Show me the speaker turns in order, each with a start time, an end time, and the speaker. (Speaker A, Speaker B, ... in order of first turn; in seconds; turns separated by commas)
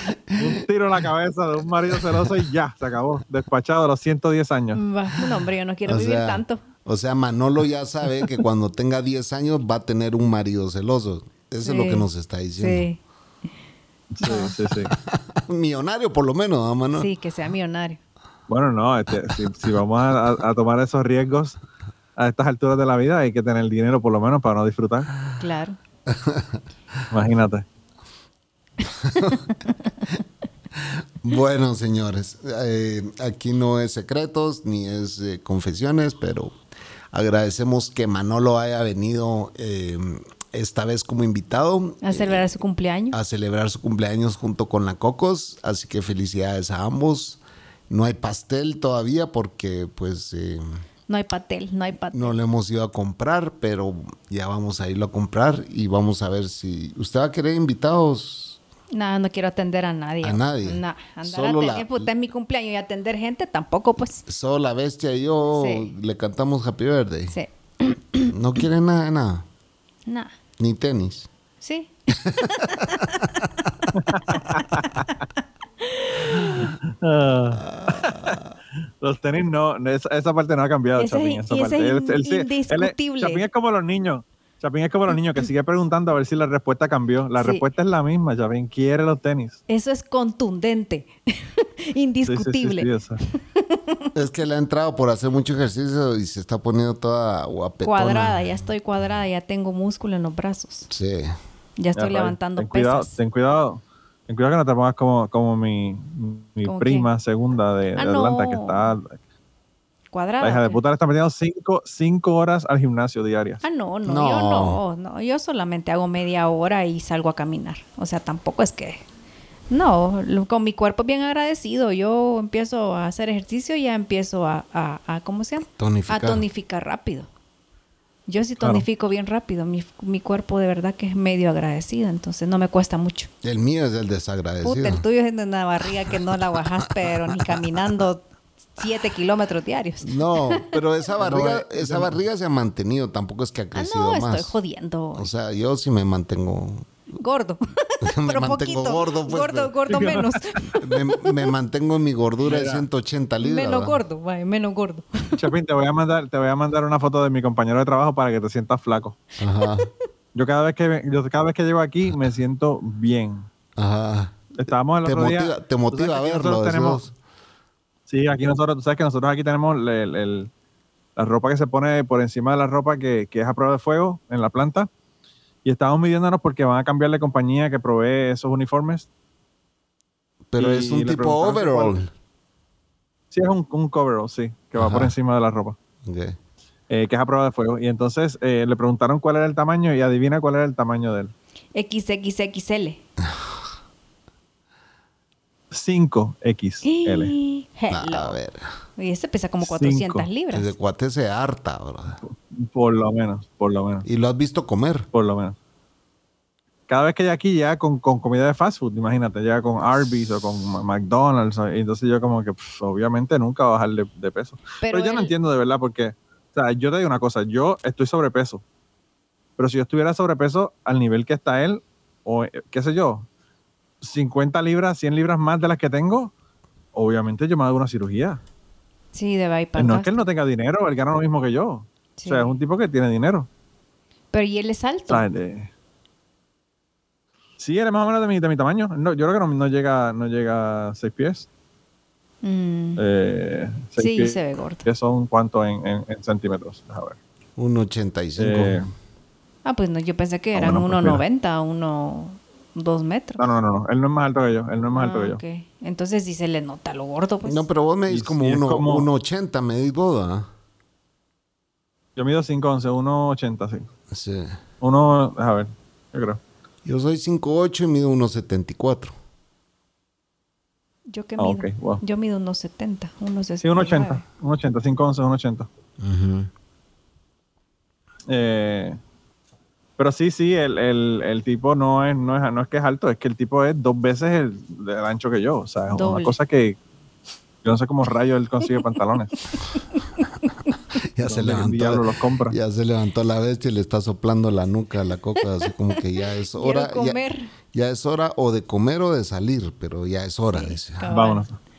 Speaker A: 0.3-0.6, Speaker B: 0.3-4.8, Speaker C: 4.7-6.6, Speaker A: 5.9-12.9, Speaker C: 11.6-13.0, Speaker B: 14.1-14.9, Speaker C: 14.2-14.5, Speaker A: 14.8-17.1, Speaker C: 16.9-18.0, Speaker B: 18.5-21.6, Speaker B: 22.2-25.1, Speaker C: 25.4-25.8, Speaker A: 26.1-26.6, Speaker B: 27.1-27.6, Speaker A: 28.9-29.5, Speaker C: 29.3-29.7, Speaker A: 30.8-36.5, Speaker A: 37.1-42.5, Speaker C: 42.0-43.2, Speaker A: 43.1-50.6, Speaker C: 51.1-52.3, Speaker A: 52.1-58.6, Speaker C: 58.9-64.2, Speaker A: 60.2-62.1, Speaker A: 64.3-67.3, Speaker C: 65.5-65.9, Speaker C: 67.3-68.3, Speaker A: 68.3-69.5, Speaker C: 70.1-70.3, Speaker A: 70.6-71.3, Speaker C: 71.6-71.9, Speaker A: 72.2-73.5, Speaker C: 72.7-73.0, Speaker B: 74.0-74.9, Speaker C: 75.8-76.7, Speaker B: 76.6-78.4, Speaker A: 77.6-78.5, Speaker B: 79.0-89.6, Speaker C: 81.0-83.5, Speaker C: 87.4-87.6, Speaker C: 89.7-94.1, Speaker B: 92.3-93.2, Speaker A: 94.2-98.5, Speaker C: 97.8-100.9, Speaker A: 100.9-101.3, Speaker C: 101.8-103.2, Speaker B: 102.0-109.2, Speaker C: 106.6-107.1, Speaker C: 108.0-108.8, Speaker C: 110.1-110.8, Speaker B: 110.4-113.6, Speaker C: 113.6-119.0, Speaker A: 114.1-114.8, Speaker C: 119.7-127.3, Speaker A: 125.7-126.5, Speaker C: 128.3-133.3, Speaker A: 133.4-135.0, Speaker C: 134.6-138.2, Speaker C: 138.8-140.6, Speaker A: 140.0-144.6, Speaker B: 141.2-142.2, Speaker C: 143.8-145.3, Speaker A: 145.2-146.9, Speaker C: 147.2-150.8, Speaker A: 148.0-149.7, Speaker B: 149.9-150.6, Speaker A: 150.8-154.0, Speaker B: 152.4-152.8, Speaker C: 153.4-155.4, Speaker B: 155.4-159.2, Speaker A: 159.4-159.9, Speaker B: 160.3-163.5, Speaker A: 163.8-164.5, Speaker B: 164.6-167.0, Speaker A: 165.0-167.1, Speaker B: 168.1-170.5, Speaker B: 171.2-174.9, Speaker B: 175.7-179.1, Speaker A: 180.5-182.1, Speaker B: 180.6-181.9, Speaker B: 183.3-185.8, Speaker A: 184.8-185.1, Speaker A: 186.0-186.4, Speaker B: 186.9-191.3, Speaker C: 191.7-193.0, Speaker B: 195.7-197.3, Speaker C: 196.8-198.4, Speaker A: 197.9-198.7, Speaker C: 199.0-200.7, Speaker B: 199.6-200.3, Speaker A: 200.5-202.2, Speaker B: 202.2-204.1, Speaker A: 204.1-205.1, Speaker B: 205.1-205.6, Speaker B: 206.9-218.6, Speaker C: 214.8-215.3, Speaker B: 219.6-223.3, Speaker B: 224.0-226.3, Speaker B: 226.9-228.4, Speaker C: 229.1-230.2, Speaker B: 229.8-233.5, Speaker C: 232.2-232.6, Speaker C: 234.3-235.2, Speaker B: 235.1-235.7, Speaker B: 237.6-241.5, Speaker C: 242.4-243.0, Speaker B: 243.0-247.2, Speaker C: 244.0-244.9, Speaker A: 247.6-248.8, Speaker B: 248.4-248.9, Speaker C: 249.7-253.5, Speaker B: 250.6-251.2, Speaker B: 253.4-255.4, Speaker C: 254.9-257.6, Speaker A: 257.4-260.5, Speaker B: 258.1-259.1, Speaker B: 262.2-263.9, Speaker A: 264.1-264.6, Speaker B: 264.8-266.4, Speaker A: 266.9-269.1, Speaker C: 271.1-274.2, Speaker B: 271.4-272.0, Speaker B: 273.6-275.7, Speaker A: 276.0-276.5, Speaker B: 278.3-279.0, Speaker B: 280.0-286.8, Speaker C: 285.9-286.4, Speaker B: 287.6-289.3, Speaker C: 289.6-290.7, Speaker A: 291.1-297.2, Speaker B: 291.2-292.6, Speaker C: 296.5-297.5, Speaker A: 297.7-301.1, Speaker C: 300.5-301.4, Speaker B: 301.1-301.6